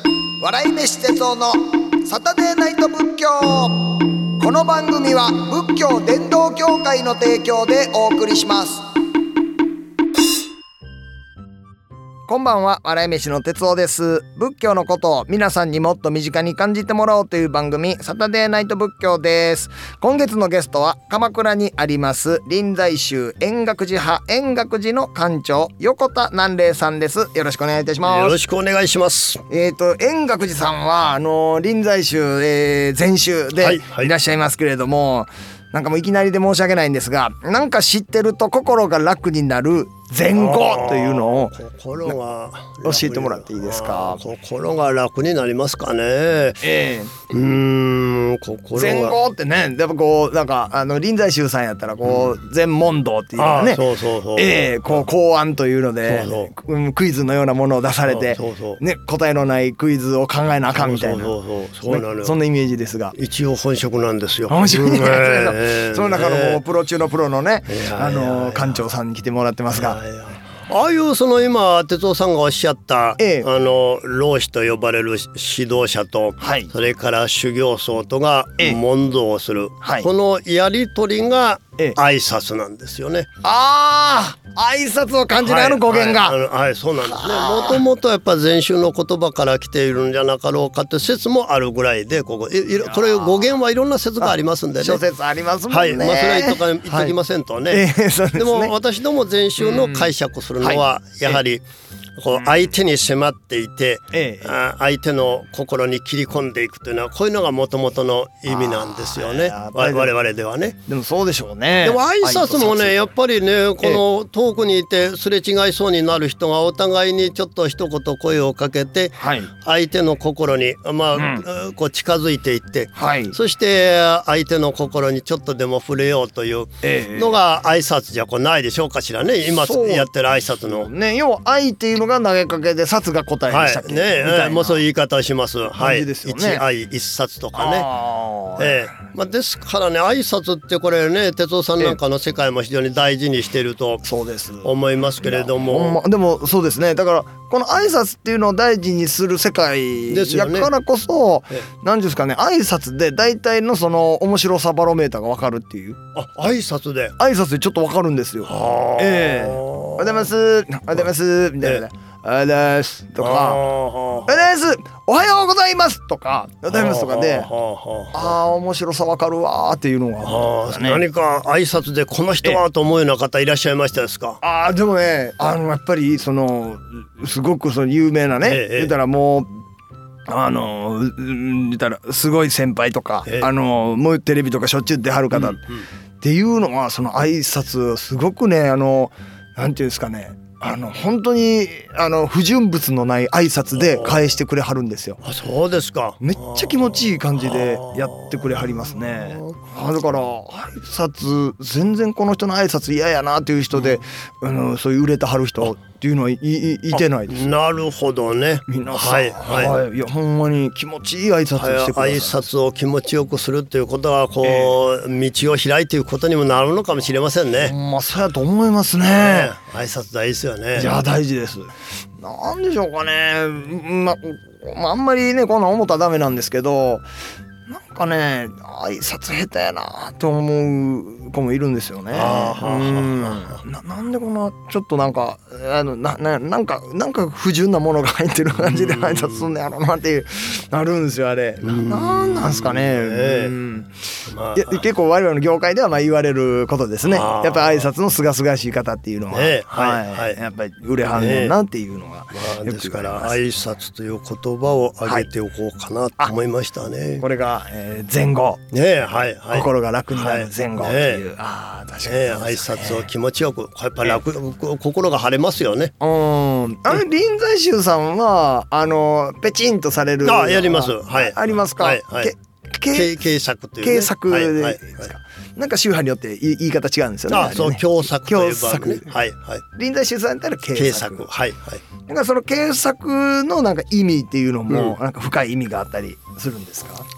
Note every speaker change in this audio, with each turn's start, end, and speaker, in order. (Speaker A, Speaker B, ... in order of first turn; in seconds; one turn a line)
Speaker A: 0.4-8.8
Speaker A: 12.3-28.4
Speaker B: 28.0-29.4
Speaker A: 29.5-42.1
Speaker B: 33.6-34.1
Speaker B: 40.3-46.6
Speaker A: 42.8-44.2
Speaker A: 46.6-47.1
Speaker B: 47.3-49.2
Speaker A: 48.8-63.1
Speaker B: 52.0-52.4
Speaker B: 53.4-55.1
Speaker B: 56.1-56.5
Speaker B: 58.1-58.8
Speaker B: 60.7-62.4
Speaker B: 63.1-66.6
Speaker A: 64.5-70.0
Speaker B: 67.7-68.8
Speaker B: 69.7-83.3
Speaker A: 73.2-73.5
Speaker A: 76.4-76.7
Speaker A: 79.8-80.1
Speaker A: 83.4-86.4
Speaker B: 85.4-95.0
Speaker A: 87.0-87.8
Speaker A: 92.8-93.5
Speaker A: 94.2-97.2
Speaker B: 95.7-101.6
Speaker A: 97.7-98.8
Speaker A: 99.6-101.4
Speaker B: 102.2-110.8
Speaker A: 102.3-102.6
Speaker A: 104.1-104.6
Speaker A: 108.5-110.1
Speaker A: 110.9-113.0
Speaker B: 111.8-130.9
Speaker A: 119.2-119.5
Speaker A: 121.2-121.5
Speaker A: 123.0-123.4
Speaker A: 126.8-127.4
Speaker A: 129.6-130.1
Speaker A: 130.6-134.8
Speaker B: 133.5-137.9
Speaker A: 135.7-136.6
Speaker A: 137.6-138.9
Speaker B: 138.6-144.1
Speaker A: 144.0-156.0
Speaker B: 144.6-146.0
Speaker B: 150.1-150.7
Speaker B: 156.2-157.2
Speaker A: 157.2-163.6
Speaker B: 158.4-160.3
Speaker B: 163.2-164.5
Speaker A: 164.3-167.5
Speaker B: 166.7-168.4
Speaker A: 168.1-171.0
Speaker B: 170.2-174.4
Speaker A: 174.4-179.5
Speaker B: 178.4-178.9
Speaker A: 180.3-185.7
Speaker B: 185.3-185.8
Speaker A: 186.2-195.2
Speaker B: 193.8-194.2
Speaker B: 195.2-199.6
Speaker A: 196.2-207.4
Speaker B: 206.9-209.8
Speaker A: 208.7-212.4
Speaker B: 211.6-217.8
Speaker A: 214.4-214.7
Speaker A: 217.6-219.5
Speaker B: 219.1-220.9
Speaker A: 220.8-227.1
Speaker A: 227.7-243.9
Speaker B: 232.1-233.6
Speaker B: 238.6-239.5
Speaker B: 241.6-243.5
Speaker B: 244.3-244.8
Speaker A: 244.6-253.4
Speaker B: 247.1-247.9
Speaker B: 249.3-250.4
Speaker B: 251.1-251.6
Speaker B: 252.3-257.2
Speaker A: 257.2-258.6
Speaker B: 258.7-261.2
Speaker A: 259.5-263.1
Speaker B: 262.1-265.9
Speaker A: 266.0-273.2
Speaker B: 270.2-272.3
Speaker B: 272.9-275.1
Speaker A: 273.8-279.1
Speaker B: 277.3-279.6
Speaker A: 279.7-281.3
Speaker B: 280.7-281.8
Speaker A: 282.1-287.1
Speaker B: 284.7-285.0